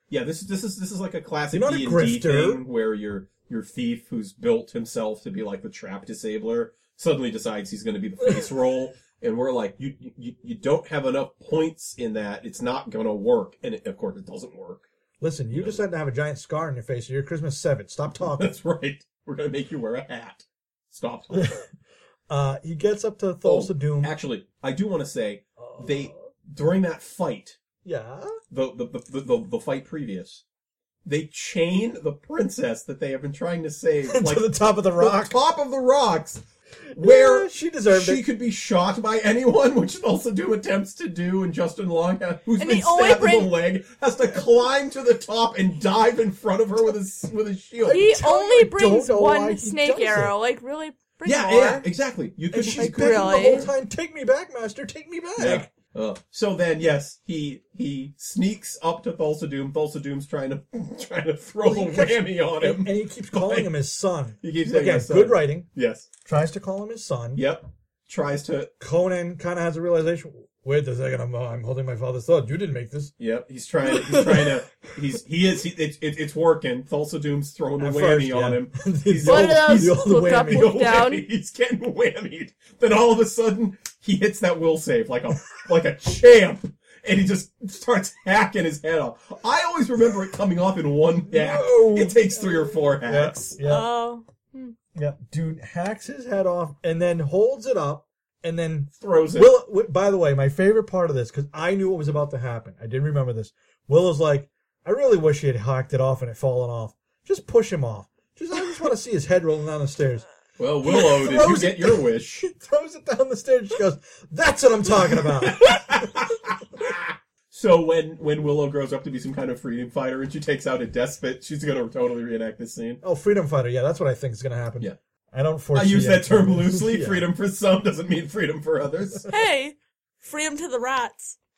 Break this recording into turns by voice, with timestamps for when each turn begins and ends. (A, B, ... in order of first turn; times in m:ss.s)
0:00.1-0:14.8 A
0:01.5-0:02.6 B
0:15.2-0:18.5 B
0:15.5-0:15.8 A
0:18.2-0:21.6 A
0:21.3-0:21.7 B
0:22.3-0:24.1 B
0:23.4-0:27.6 A
0:25.6-0:26.2 B
0:27.8-0:28.4 B
0:28.5-0:30.4 A
0:31.0-0:36.4 A
0:34.1-0:35.3 B
0:36.9-0:38.2 B
0:37.0-0:48.0 A
0:42.6-0:43.5 C
0:47.8-0:50.3 B
0:47.9-0:51.9 C
0:51.2-0:53.7 A
0:52.5-0:55.7 B
0:52.8-0:53.7 C
0:55.4-1:03.7 A
1:01.6-1:05.7 B
1:04.4-1:06.1 A
1:06.2-1:07.4 B
1:07.3-1:08.7 A
1:08.8-1:13.1 B
1:13.2-1:33.6 A
1:13.8-1:14.6 C
1:17.8-1:20.7 B
1:19.2-1:21.2 C
1:31.3-1:33.9 B
1:33.6-1:34.7 C
1:34.9-1:50.3 B
1:39.0-1:39.5 A
1:50.6-1:52.5 A
1:50.8-1:55.9 B
1:55.0-2:03.0 A
2:03.0-2:07.3 B
2:05.7-2:09.3 A
2:09.3-2:11.4 C